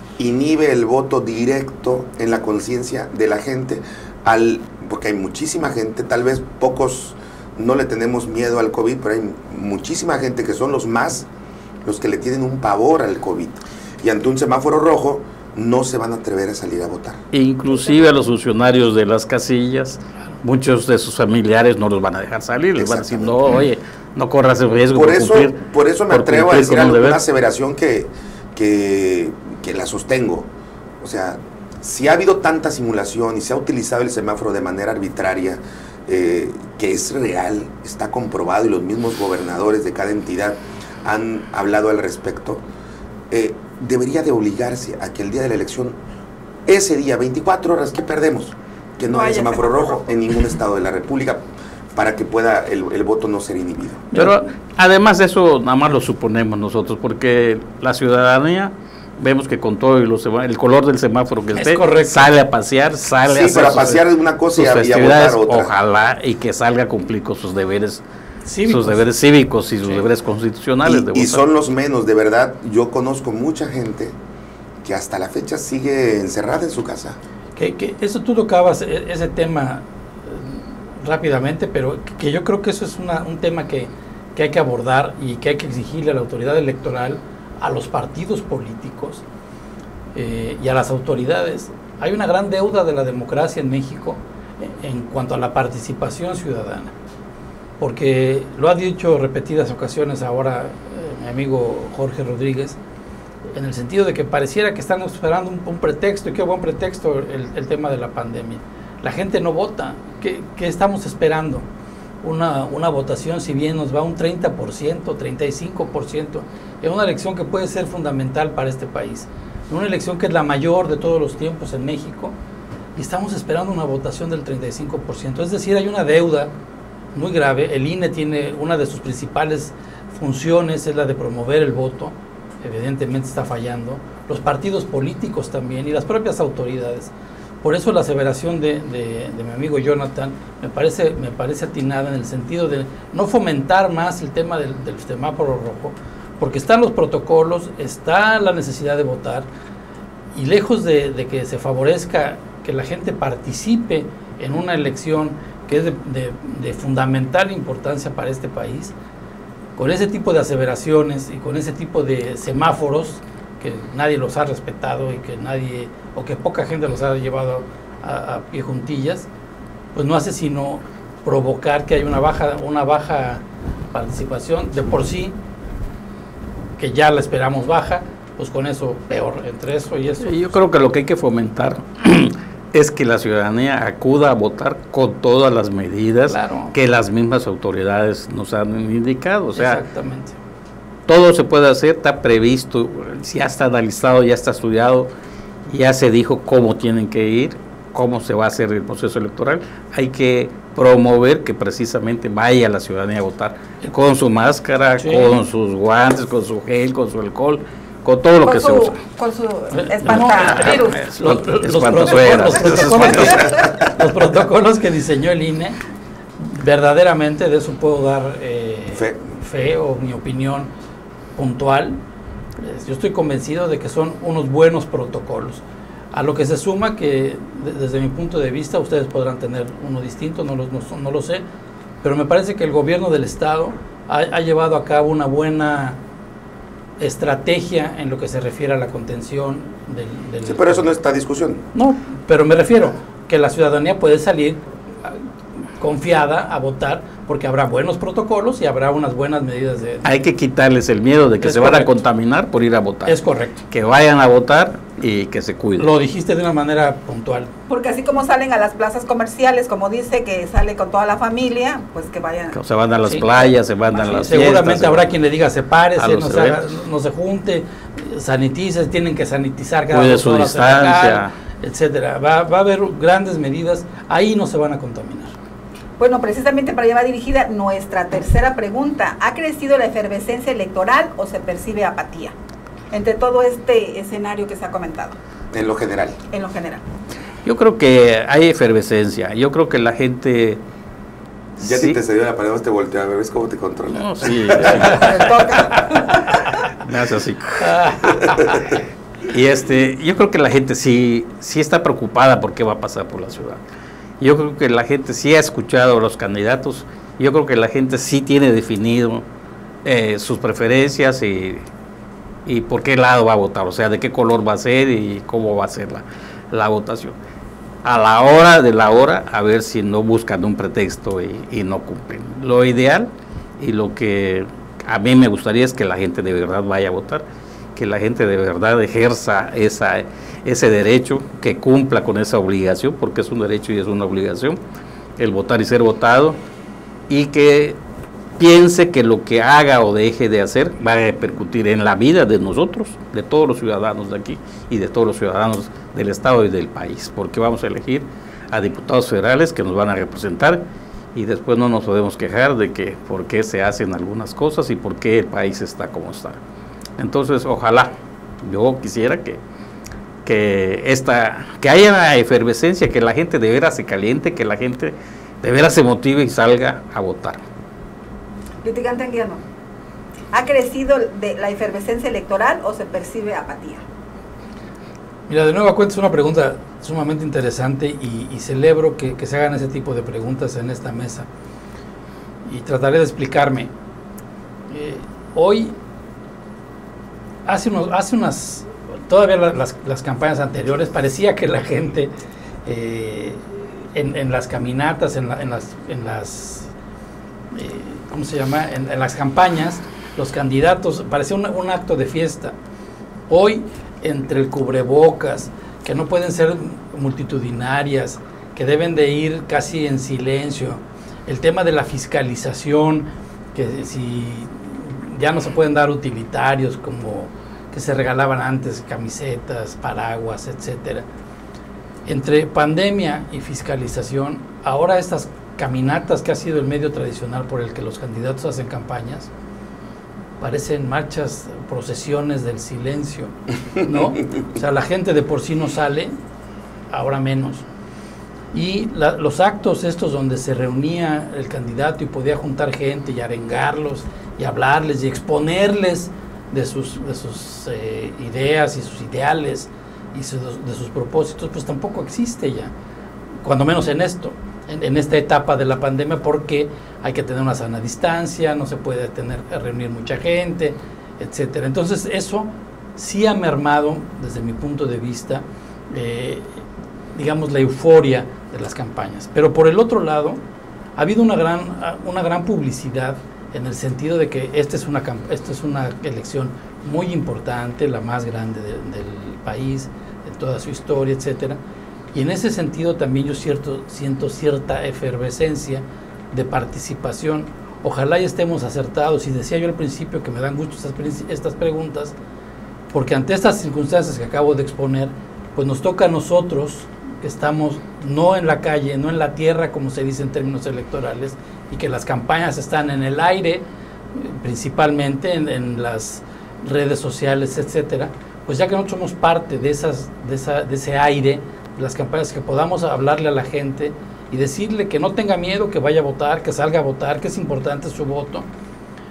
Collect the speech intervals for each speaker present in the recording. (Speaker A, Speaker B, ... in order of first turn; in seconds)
Speaker A: 0.2-11.3, 11.8-17.2, 22.8-23.4, 24.9-30.5, 31.0-42.6, 43.3-46.0, 46.7-54.1, 63.3-65.7, 70.8-74.2, 74.8-77.2, 218.9-219.2, 240.4-241.6, 285.5-286.2, 291.6-295.1
Speaker B: 17.3-25.6, 26.1-27.2, 54.1-64.0, 64.5-68.0, 68.7-71.4, 180.2-189.8, 191.1-195.1, 195.7-209.0, 210.0-213.7, 250.0-253.2, 253.7-255.9, 262.5-265.1, 266.0-266.6, 269.9-271.3, 287.4-290.6, 291.6-292.0, 293.9-298.4, 299.3-303.6, 304.2-309.2, 309.9-311.6, 312.5-317.2, 317.8-327.2, 327.8-334.6, 335.2-336.4, 337.1-337.8, 338.4-350.6, 351.1-356.4, 357.0-357.9, 358.4-359.4, 360.2-367.4
Speaker C: 49.1-50.0, 208.4-211.0, 213.0-213.6, 257.7-262.6, 276.0-282.3, 282.9-285.2, 286.3-286.8, 294.8-296.4, 368.6-369.4, 370.3-373.8
Speaker D: 61.5-62.3, 68.5-69.1, 77.6-89.2, 90.2-96.9, 97.8-102.8, 103.5-111.7, 112.2-122.3, 123.0-126.5, 127.1-137.1, 137.6-149.5, 150.3-158.9, 159.8-169.3, 169.9-175.4, 176.8-180.6, 186.3-186.8, 189.6-190.3, 205.0-205.4, 209.7-215.8, 216.4-220.7, 221.4-222.0, 222.6-231.4, 232.0-236.0, 237.0-240.9, 241.7-245.2, 245.8-250.1, 251.4-252.0, 253.1-253.6, 255.8-257.5, 263.1-263.5, 264.0-275.4, 297.6-298.6, 375.3-381.3, 382.4-383.7, 384.7-385.8, 387.5-392.1, 392.6-396.7, 397.5-402.6, 403.3-421.1, 422.1-429.3, 430.4-436.2, 436.9-437.6, 438.5-452.7, 453.4-466.6, 467.1-470.4, 471.0-481.6, 482.1-492.1, 492.9-518.5